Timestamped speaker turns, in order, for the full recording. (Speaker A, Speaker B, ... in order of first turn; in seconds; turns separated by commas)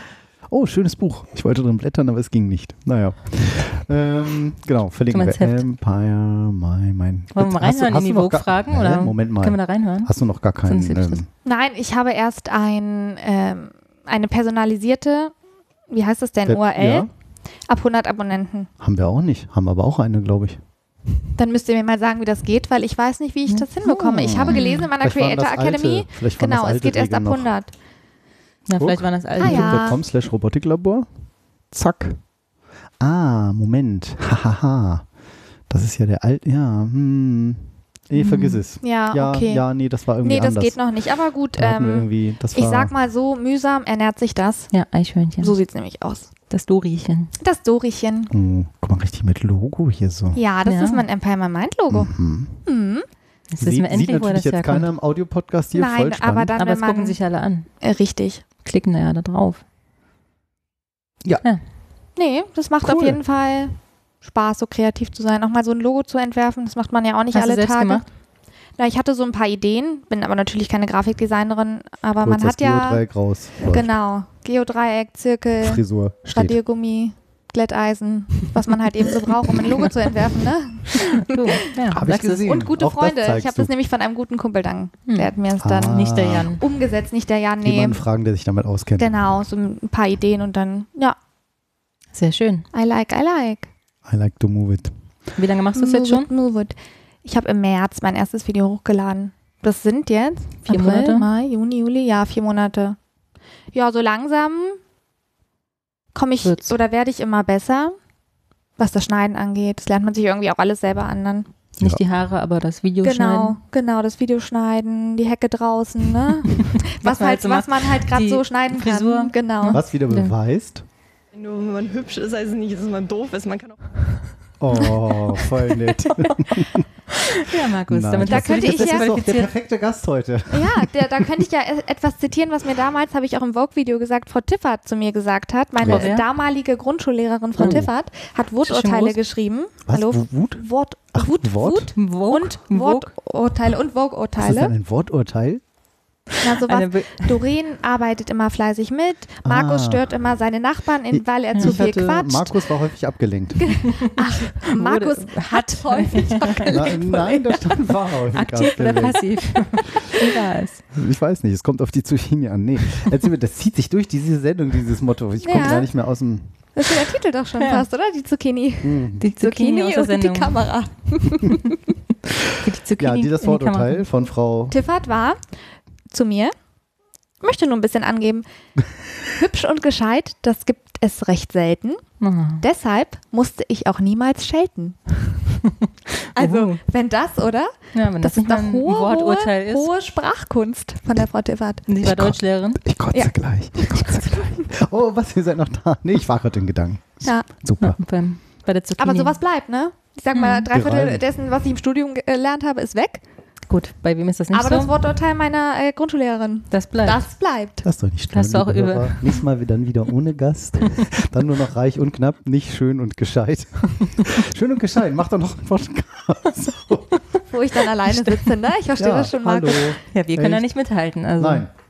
Speaker A: 0.5-11.3, Speaker B: 5.1-5.6, Speaker B: 7.3-11.2, Speaker C: 11.4-15.3, Speaker C: 15.9-17.1, Speaker A: 16.5-17.1, Speaker C: 17.7-18.7, Speaker A: 18.8-20.6, Speaker C: 21.4-27.7, Speaker B: 23.5-24.9, Speaker A: 24.2-27.5, Speaker B: 28.7-29.9, Speaker A: 28.8-31.1, Speaker C: 29.4-30.0, Speaker A: 31.7-32.2, Speaker A: 33.0-35.1, Speaker A: 35.7-40.8, Speaker B: 38.2-38.6, Speaker C: 38.8-39.6, Speaker C: 40.2-44.7, Speaker A: 41.6-42.9, Speaker B: 44.7-45.5, Speaker C: 45.4-46.3, Speaker B: 46.5-47.3, Speaker C: 47.4-48.3, Speaker A: 48.3-50.4, Speaker C: 50.3-52.1, Speaker B: 50.7-51.0, Speaker A: 51.9-52.6, Speaker C: 52.6-53.1, Speaker B: 53.5-54.9, Speaker A: 53.6-56.5, Speaker C: 55.7-57.2, Speaker B: 56.6-57.7, Speaker C: 57.8-58.4, Speaker B: 58.6-59.6, Speaker C: 62.2-68.0, Speaker A: 62.8-63.2, Speaker B: 67.3-68.1, Speaker C: 68.8-73.0, Speaker A: 72.2-73.9, Speaker C: 73.6-81.6, Speaker A: 75.6-76.6, Speaker B: 81.2-82.5, Speaker A: 81.9-83.7, Speaker C: 82.4-88.0, Speaker A: 85.6-86.6, Speaker B: 85.8-86.6, Speaker A: 87.6-89.2, Speaker C: 89.0-91.2, Speaker B: 92.1-92.7, Speaker C: 92.7-93.7, Speaker A: 94.0-94.9, Speaker B: 95.4-96.3, Speaker C: 95.8-103.0, Speaker B: 100.7-101.3, Speaker C: 103.7-104.8, Speaker C: 106.2-108.0, Speaker C: 108.8-111.5, Speaker B: 111.8-113.6, Speaker C: 113.0-119.8, Speaker B: 116.9-120.3, Speaker A: 119.7-120.8, Speaker D: 121.3-125.4, Speaker A: 124.6-126.8, Speaker B: 127.1-129.5, Speaker A: 127.9-131.0, Speaker C: 128.3-129.1, Speaker C: 130.5-144.7, Speaker A: 135.8-136.1, Speaker B: 135.8-136.2, Speaker A: 137.6-137.9, Speaker B: 137.6-137.8, Speaker B: 138.6-139.2, Speaker A: 139.9-141.9, Speaker B: 142.0-143.1, Speaker A: 144.4-145.6, Speaker C: 146.4-152.6, Speaker B: 146.7-147.3, Speaker A: 149.4-150.1, Speaker A: 151.1-153.8, Speaker C: 153.6-157.8, Speaker B: 154.7-156.8, Speaker A: 156.6-159.6, Speaker B: 158.3-160.8, Speaker A: 160.9-166.5, Speaker C: 165.4-165.9, Speaker C: 166.8-171.7, Speaker A: 168.8-169.3, Speaker B: 169.2-170.7, Speaker B: 172.6-174.0, Speaker A: 173.0-174.8, Speaker C: 174.7-175.4, Speaker C: 176.1-176.5, Speaker C: 177.4-178.5, Speaker C: 179.3-182.1, Speaker B: 182.2-182.6, Speaker C: 182.6-185.3, Speaker B: 186.4-186.8, Speaker C: 186.4-191.8, Speaker B: 187.9-189.9, Speaker B: 191.9-192.8, Speaker A: 192.0-198.0, Speaker C: 193.1-194.7, Speaker B: 197.8-199.3, Speaker C: 199.0-203.2, Speaker B: 200.3-200.7, Speaker A: 200.7-201.2, Speaker B: 203.7-204.9, Speaker C: 204.5-207.8, Speaker B: 206.7-207.2, Speaker A: 207.8-217.2, Speaker B: 208.3-209.4, Speaker C: 217.5-219.9, Speaker B: 218.1-218.5, Speaker A: 219.0-220.7, Speaker B: 220.1-221.7, Speaker A: 221.4-221.7